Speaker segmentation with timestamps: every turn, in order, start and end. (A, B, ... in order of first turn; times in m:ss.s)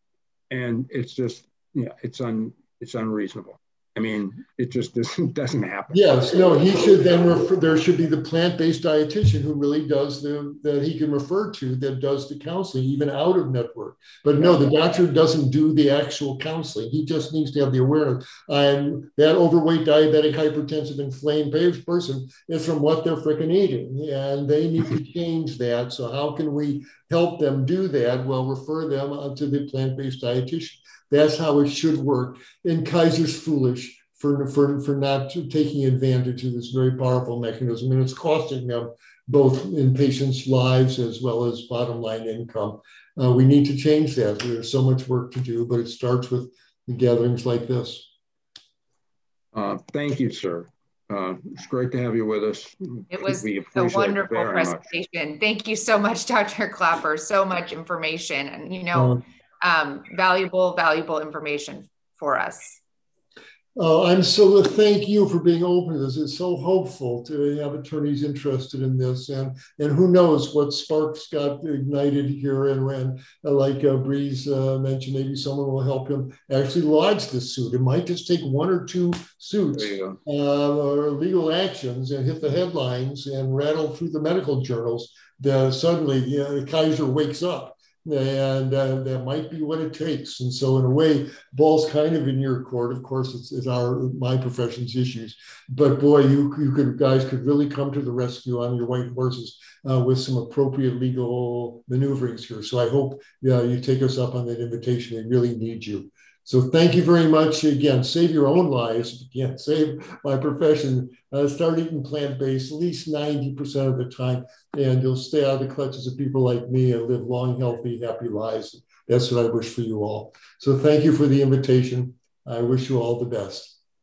0:00.5-0:06.3 A
0:05.9-0:48.1 B
0:49.5-0:54.8 A
0:53.1-1:02.8 C
0:58.9-0:59.2 B
1:03.8-2:03.8 B
1:19.8-1:20.2 A